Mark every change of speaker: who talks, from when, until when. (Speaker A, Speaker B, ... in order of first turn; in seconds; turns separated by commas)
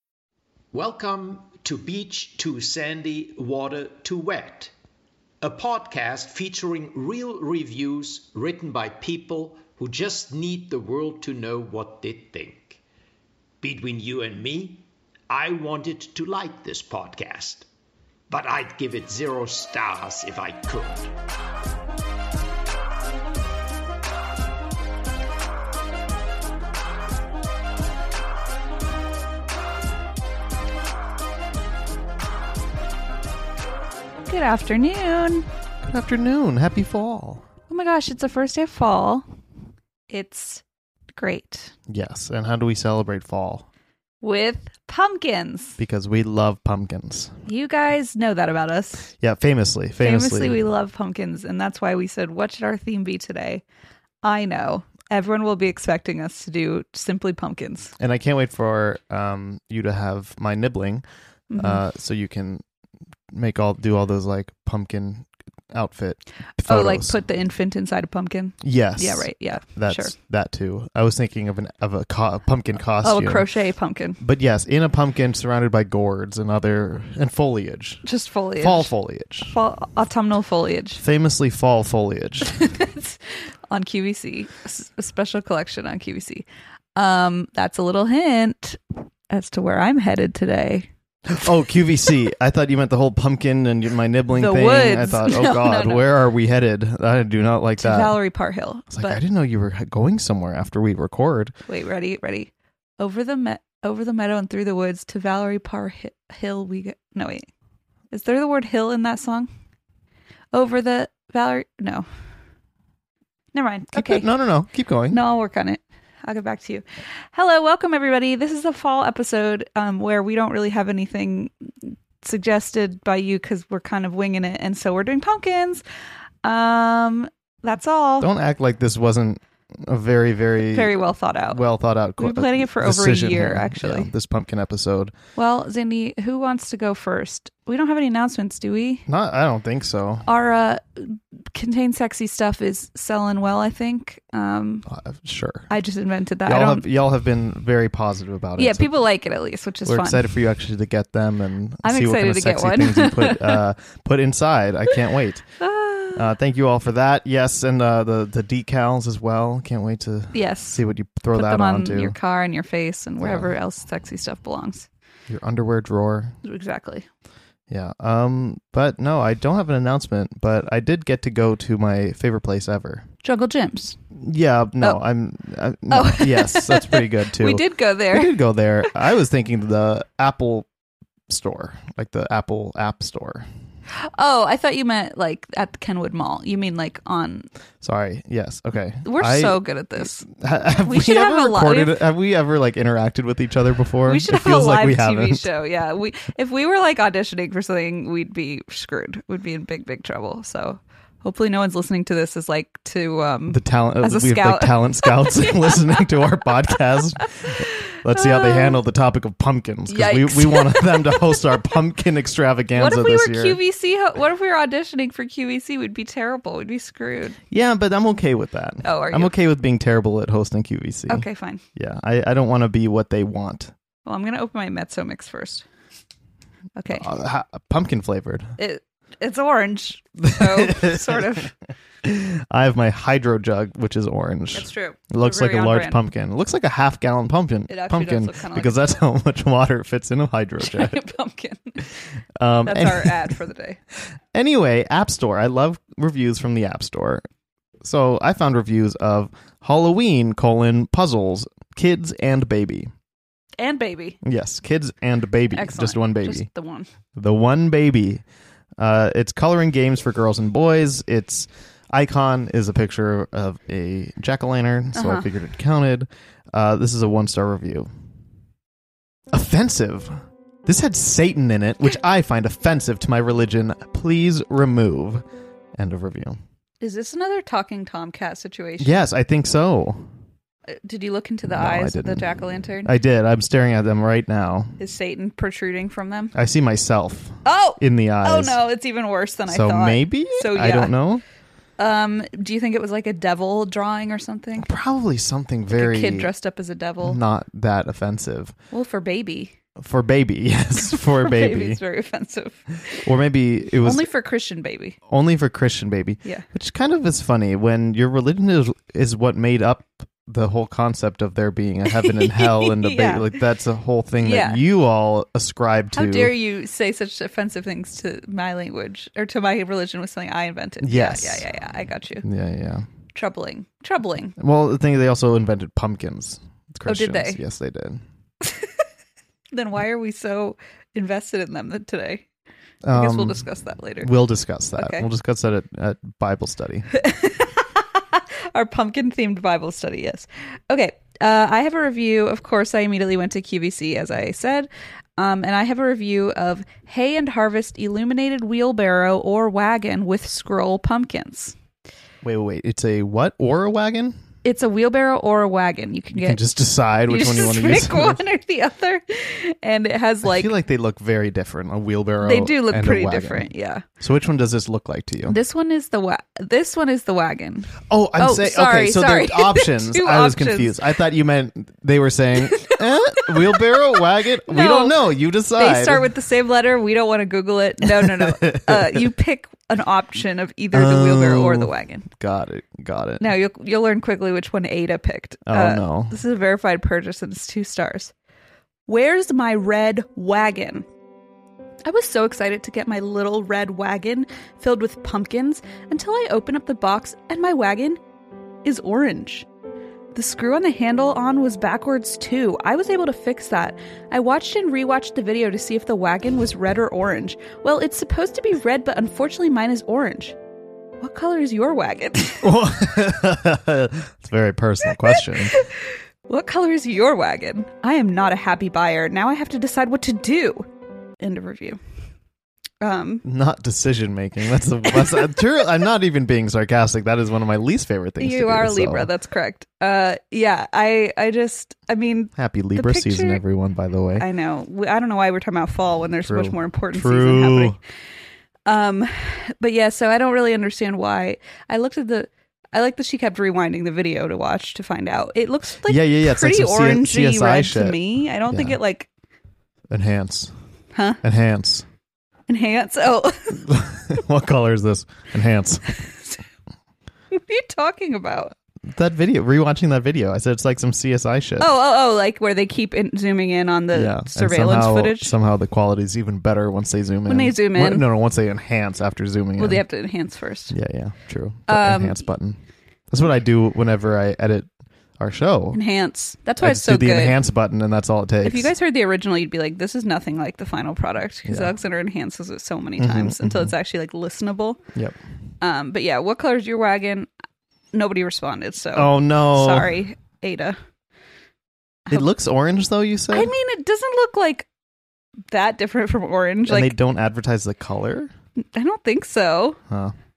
Speaker A: 0.7-4.7, Speaker A: 5.4-12.8, Speaker A: 13.6-17.7, Speaker A: 18.3-21.1, Speaker B: 34.3-35.5, Speaker C: 35.9-37.4, Speaker B: 37.7-39.3, Speaker B: 40.1-40.6, Speaker B: 41.1-41.7, Speaker C: 41.9-43.6, Speaker B: 44.2-45.8, Speaker C: 45.8-47.4, Speaker B: 47.5-49.1, Speaker C: 49.2-50.6, Speaker B: 50.0-53.6, Speaker B: 54.2-57.9, Speaker C: 58.0-61.0, Speaker B: 61.5-61.8, Speaker C: 61.6-62.6, Speaker C: 63.3-67.2, Speaker B: 66.6-70.1, Speaker C: 68.6-73.5, Speaker B: 73.0-74.2, Speaker C: 74.2-78.0, Speaker B: 78.0-78.9, Speaker C: 78.6-79.5, Speaker B: 79.4-81.0, Speaker C: 81.0-82.5, Speaker B: 82.6-83.2, Speaker B: 83.7-90.9, Speaker C: 91.3-98.2, Speaker B: 94.3-96.1, Speaker B: 97.8-99.2, Speaker C: 98.9-101.5, Speaker B: 101.7-107.5, Speaker B: 108.1-109.5, Speaker B: 110.5-112.0, Speaker B: 113.5-114.3, Speaker C: 113.9-115.2, Speaker B: 115.1-125.8, Speaker B: 126.4-128.3, Speaker C: 128.2-131.0, Speaker B: 130.6-131.6, Speaker C: 131.5-135.1, Speaker B: 132.2-134.1, Speaker B: 135.4-139.1, Speaker C: 139.1-140.3, Speaker B: 140.2-144.9, Speaker C: 144.9-145.7, Speaker B: 145.7-146.9, Speaker C: 146.4-148.9, Speaker B: 148.6-150.3, Speaker C: 149.8-155.5, Speaker B: 151.8-153.6, Speaker B: 155.6-156.2, Speaker C: 156.1-162.2, Speaker B: 160.3-160.8, Speaker B: 161.3-164.9, Speaker C: 163.2-163.5, Speaker C: 165.3-166.3, Speaker B: 166.4-167.1, Speaker C: 167.7-173.1, Speaker B: 173.2-174.0, Speaker C: 174.2-180.7, Speaker B: 175.9-178.4, Speaker C: 181.3-183.5, Speaker B: 183.9-187.5, Speaker C: 187.8-189.6, Speaker B: 189.1-192.0, Speaker C: 190.3-195.5, Speaker B: 194.1-206.0, Speaker C: 203.5-213.6, Speaker B: 207.9-208.8, Speaker B: 209.9-211.6, Speaker B: 212.8-217.4, Speaker C: 217.5-223.7, Speaker B: 218.8-219.3, Speaker B: 221.1-221.6, Speaker B: 224.1-225.7, Speaker B: 226.8-227.1, Speaker C: 226.9-228.5, Speaker B: 228.6-231.5, Speaker C: 230.2-231.4, Speaker C: 232.0-241.0, Speaker B: 234.5-236.0, Speaker B: 237.7-238.9, Speaker B: 240.6-241.9, Speaker C: 242.4-243.3, Speaker B: 242.6-243.8, Speaker C: 244.3-247.2, Speaker C: 247.8-252.9, Speaker B: 253.6-254.2, Speaker C: 254.2-256.5, Speaker B: 255.5-256.9, Speaker C: 257.2-258.2, Speaker C: 258.8-267.9, Speaker B: 264.9-265.3, Speaker C: 269.3-270.1, Speaker C: 270.7-275.2, Speaker C: 275.8-276.4, Speaker B: 276.8-279.0, Speaker C: 278.8-280.1, Speaker B: 280.7-282.9, Speaker C: 281.5-282.2, Speaker C: 282.9-284.8, Speaker B: 284.8-286.4, Speaker C: 286.3-288.6, Speaker B: 287.4-291.0, Speaker C: 289.5-291.2, Speaker B: 291.8-294.7, Speaker C: 294.6-296.3, Speaker B: 295.7-297.2, Speaker C: 297.0-298.6, Speaker B: 298.7-299.6, Speaker C: 299.8-301.8, Speaker B: 300.9-303.1, Speaker C: 303.0-304.1, Speaker B: 303.7-305.0, Speaker C: 305.1-316.3, Speaker B: 311.9-313.4, Speaker B: 314.2-314.6, Speaker B: 315.9-322.2, Speaker C: 320.8-321.4, Speaker C: 322.2-322.9, Speaker B: 323.1-324.4, Speaker C: 324.4-328.0, Speaker B: 326.9-327.4, Speaker B: 328.4-328.7, Speaker B: 329.5-332.3, Speaker C: 332.8-333.4, Speaker B: 332.9-334.1, Speaker C: 334.0-336.9, Speaker B: 334.8-335.1, Speaker B: 336.9-351.6, Speaker C: 352.2-354.2, Speaker B: 354.4-356.4, Speaker C: 356.1-358.2, Speaker B: 357.1-360.5, Speaker C: 360.2-363.5, Speaker B: 362.2-363.9, Speaker C: 364.0-365.4, Speaker B: 365.2-370.8, Speaker C: 367.9-376.1, Speaker B: 372.5-375.0, Speaker B: 375.6-382.1, Speaker C: 377.8-379.1, Speaker C: 380.7-383.3, Speaker B: 383.2-388.1, Speaker C: 385.4-386.2, Speaker B: 388.9-390.9, Speaker B: 391.9-398.0, Speaker B: 398.6-399.4, Speaker B: 400.1-410.4, Speaker B: 411.0-412.6, Speaker C: 412.4-415.5, Speaker B: 415.0-415.7, Speaker B: 416.3-420.7, Speaker B: 421.2-421.8, Speaker B: 422.8-423.2, Speaker C: 423.2-429.1, Speaker B: 425.0-425.4, Speaker B: 428.2-433.4, Speaker C: 432.4-434.2, Speaker B: 434.2-437.8, Speaker C: 436.2-437.8, Speaker B: 438.7-449.1, Speaker C: 445.9-448.0, Speaker C: 448.5-448.8, Speaker C: 449.9-450.5, Speaker B: 450.9-451.2, Speaker C: 451.2-451.9, Speaker B: 452.5-453.7, Speaker C: 453.6-456.0, Speaker B: 456.0-456.4, Speaker B: 457.3-458.5, Speaker C: 458.9-461.7, Speaker B: 461.6-465.3, Speaker C: 463.9-469.8, Speaker B: 467.3-468.1, Speaker B: 469.6-470.8, Speaker C: 470.7-472.6, Speaker B: 471.7-472.2, Speaker C: 473.1-474.7, Speaker C: 475.2-475.8, Speaker B: 475.7-477.4, Speaker C: 476.6-478.7, Speaker B: 478.4-484.8, Speaker C: 481.5-481.7, Speaker C: 483.0-483.7, Speaker B: 485.6-487.3, Speaker B: 487.9-490.8, Speaker C: 488.9-490.0, Speaker C: 492.1-493.5, Speaker B: 493.3-494.7, Speaker B: 495.5-496.9, Speaker C: 496.7-498.3, Speaker B: 498.7-499.8, Speaker C: 499.9-500.1